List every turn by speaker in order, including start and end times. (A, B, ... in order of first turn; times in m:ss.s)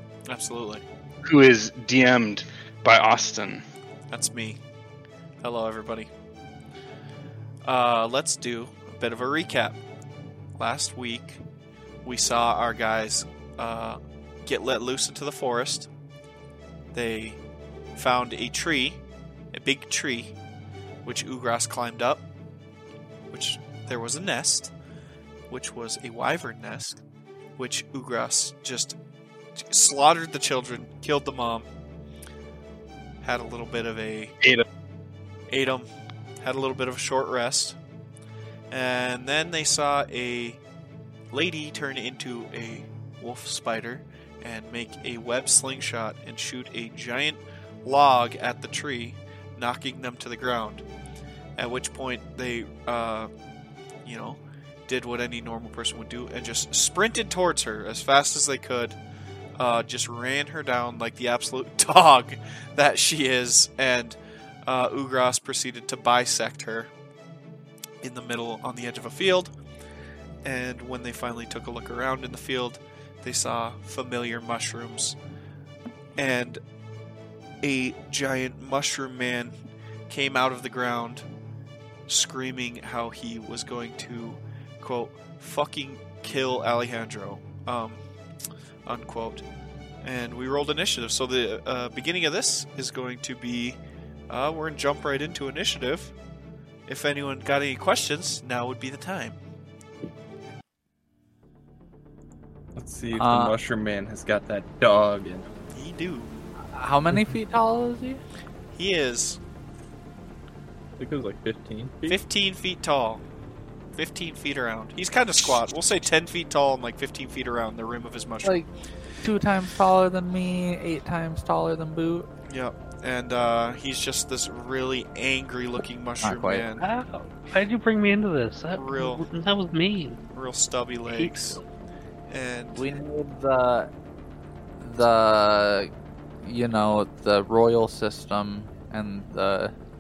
0:00.3-0:00.8 A
0:01.2-0:03.6 B
0:04.1-0:04.6 A
0:05.4-0:06.1 A
0:07.6-0:09.8 A
0:10.6-0:11.4 A
0:12.0-0:15.9 A
0:16.9-0:17.4 A
0:18.0-0:19.0 A
0:19.5-0:20.4 A
0:21.0-0:22.2 A
0:23.3-0:24.7 A
0:25.5-0:27.0 A
0:27.6-0:29.0 A
0:29.6-0:31.7 A
0:33.2-0:34.4 A
0:35.5-0:35.9 A
0:36.4-0:37.8 A
0:38.7-0:40.6 A
0:41.3-0:50.8 A
0:51.6-0:53.3 A
0:54.0-0:59.0 A
0:59.6-1:06.9 A
1:08.0-1:09.5 A
1:10.4-1:15.2 A
1:16.2-1:16.6 A
1:17.6-1:19.6 A
1:20.1-1:21.3 A
1:22.1-1:28.0 A
1:28.9-1:29.4 A
1:30.0-1:36.1 A
1:36.9-1:39.4 A
1:42.8-1:45.5 C
1:43.1-1:43.6 D
1:45.7-1:46.3 A
1:46.7-1:48.2 D
1:48.7-1:49.4 A
1:51.0-1:52.2 C
1:52.1-1:53.2 A
1:54.0-1:58.6 A
1:58.4-1:58.7 D
1:59.2-2:02.3 D
2:02.5-2:06.8 A
2:06.2-2:06.7 D
2:06.8-2:10.2 E
2:08.7-2:09.3 A
2:10.3-2:11.6 A
2:11.1-2:11.6 E
2:12.3-2:12.9 A
2:12.8-2:13.9 D
2:14.8-2:19.7 D